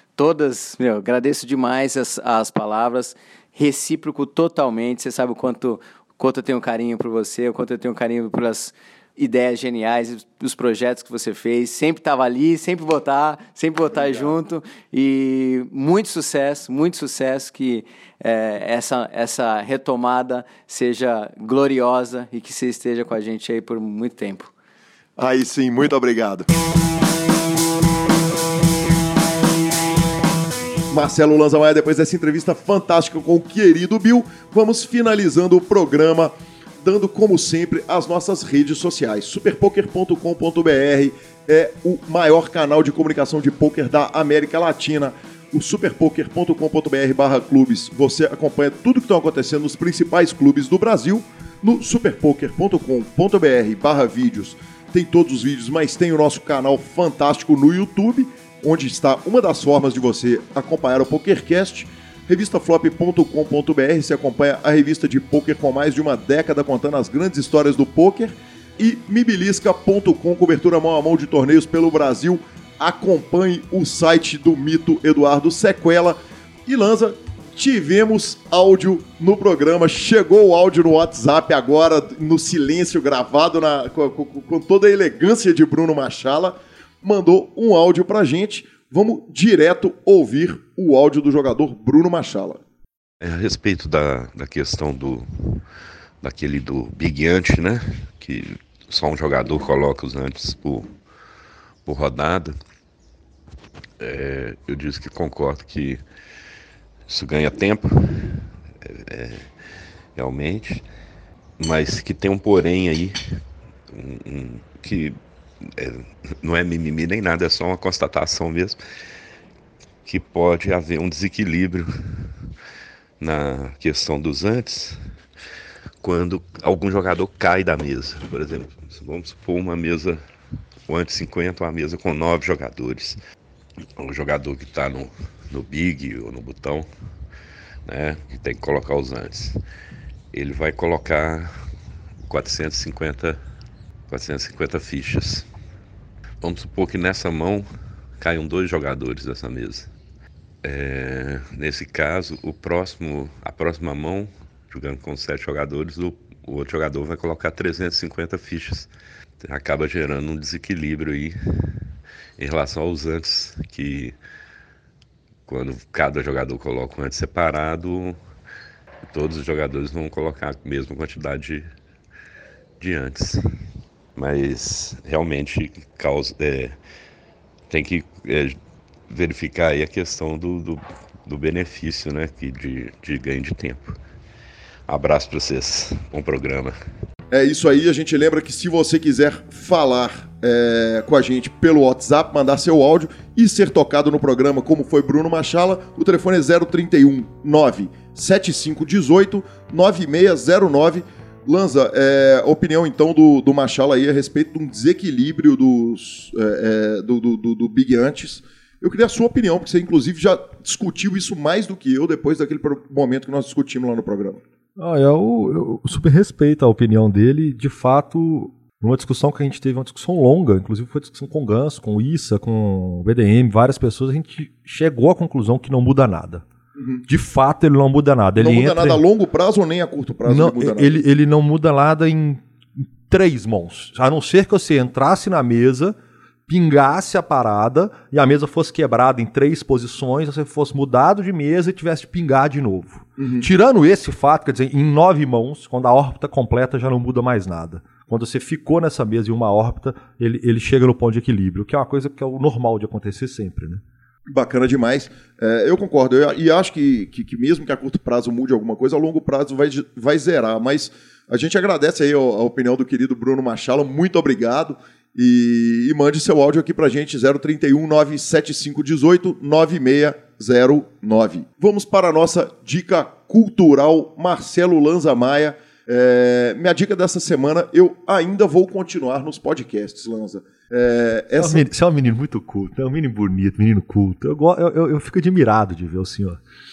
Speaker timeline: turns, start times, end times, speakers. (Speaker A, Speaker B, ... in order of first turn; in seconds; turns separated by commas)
Speaker A: 0.2-24.5, Speaker B: 13.9-14.4, Speaker B: 25.2-26.5, Speaker B: 30.9-92.6, Speaker C: 93.2-95.7, Speaker C: 96.2-101.0, Speaker C: 101.8-102.6, Speaker C: 104.0-106.0, Speaker C: 107.1-109.5, Speaker C: 110.2-110.8, Speaker C: 111.6-113.2, Speaker C: 113.9-118.8, Speaker C: 120.0-122.4, Speaker C: 123.2-125.1, Speaker C: 126.0-130.2, Speaker C: 130.9-133.2, Speaker C: 134.0-136.9, Speaker C: 137.9-139.6, Speaker C: 140.3-141.6, Speaker C: 142.2-143.4, Speaker C: 144.1-145.5, Speaker C: 146.4-147.7, Speaker C: 148.2-149.9, Speaker C: 150.6-161.8, Speaker C: 162.4-164.2, Speaker C: 165.5-168.2, Speaker C: 169.1-171.7, Speaker C: 172.8-173.4, Speaker C: 174.2-176.8, Speaker C: 177.7-184.0, Speaker C: 184.9-186.8, Speaker B: 187.3-214.4, Speaker D: 214.8-226.4, Speaker B: 226.8-227.0, Speaker D: 227.1-229.0, Speaker B: 228.4-231.0, Speaker D: 230.3-232.4, Speaker D: 233.1-235.9, Speaker D: 236.5-253.8, Speaker B: 243.2-243.5, Speaker B: 254.3-281.7, Speaker D: 281.4-286.4